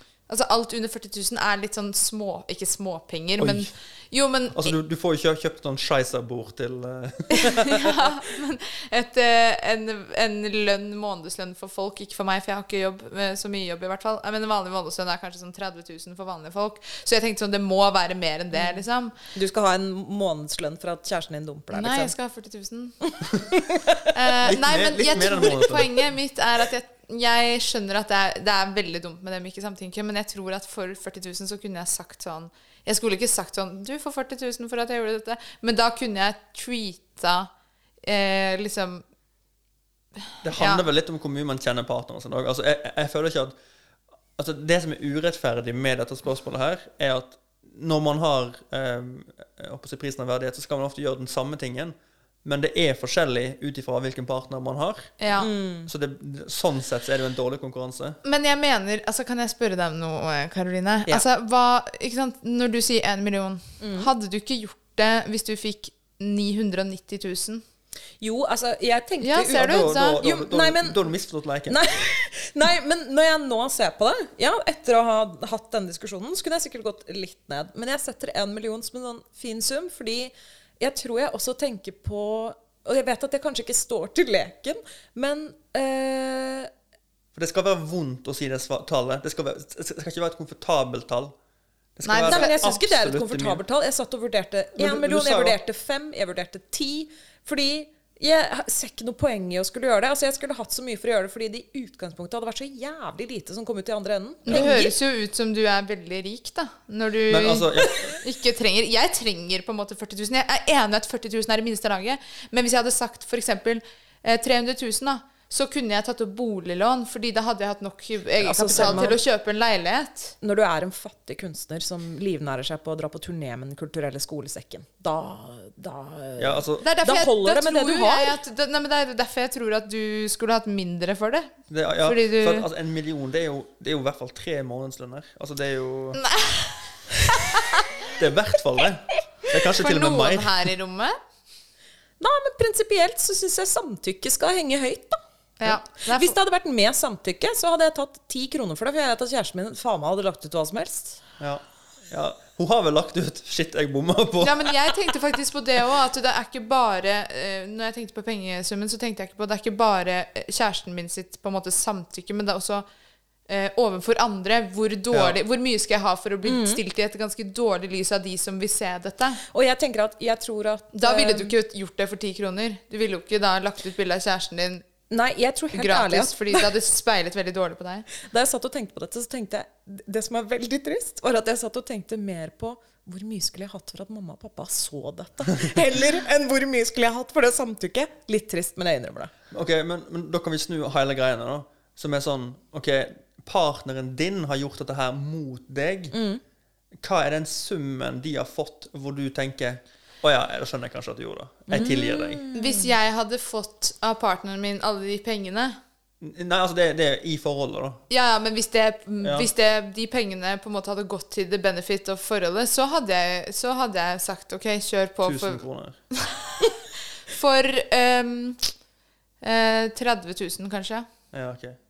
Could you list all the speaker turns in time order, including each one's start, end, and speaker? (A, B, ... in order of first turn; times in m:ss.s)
0:00.3-0:04.8 A
0:03.4-0:03.7 B
0:04.5-0:08.1 B
0:07.3-0:19.1 A
0:18.5-0:18.8 C
0:19.3-0:22.1 C
0:21.7-0:23.0 A
0:23.5-0:23.8 C
0:24.1-0:37.5 A
0:24.4-0:26.1 B
0:38.0-0:39.0 A
0:40.4-0:43.5 B
0:40.5-0:40.8 A
0:44.4-0:55.1 B
0:55.2-0:55.5 A
0:55.4-0:55.9 C
0:55.8-0:58.2 B
0:58.2-1:07.6 A
1:03.8-1:04.1 C
1:08.2-1:11.1 C
1:09.2-1:10.2 A
1:09.5-1:11.8 B
1:11.7-1:26.7 C
1:27.3-1:31.3 B
1:32.0-1:33.6 B
1:32.0-1:32.6 A
1:32.3-1:44.9 C
1:34.8-1:35.6 B
1:44.4-2:00.3 A
1:44.5-1:44.8 B
1:47.3-1:48.2 B
1:58.4-1:59.2 C
1:58.7-1:59.1 B
2:00.4-2:08.4 C
2:06.4-2:06.9 B
2:06.8-2:11.5 A
2:11.7-2:16.2 B
2:12.0-2:12.6 A
2:16.2-2:16.8 A
2:17.5-2:17.8 A
2:18.2-2:20.7 B
2:19.8-2:21.1 A
2:22.2-2:31.2 C
2:25.6-2:26.4 A
2:31.4-2:34.7 B
2:34.4-2:42.8 A
2:43.5-2:49.4 A
2:45.1-2:45.4 B
2:46.4-2:46.8 C
2:49.5-2:51.5 C
2:50.9-2:54.8 A
2:55.1-2:56.7 C
2:55.7-2:58.1 A
2:58.2-3:09.3 C
3:09.5-3:16.1 B
3:16.1-3:16.4 C
3:17.0-3:22.4 B
3:21.7-3:22.9 C
3:22.5-3:25.8 A
3:26.2-3:28.0 B
3:28.1-3:35.6 A
3:29.2-3:29.5 B
3:35.2-3:36.0 B
3:37.3-3:38.7 A
3:39.4-3:41.1 A
3:41.3-3:41.8 B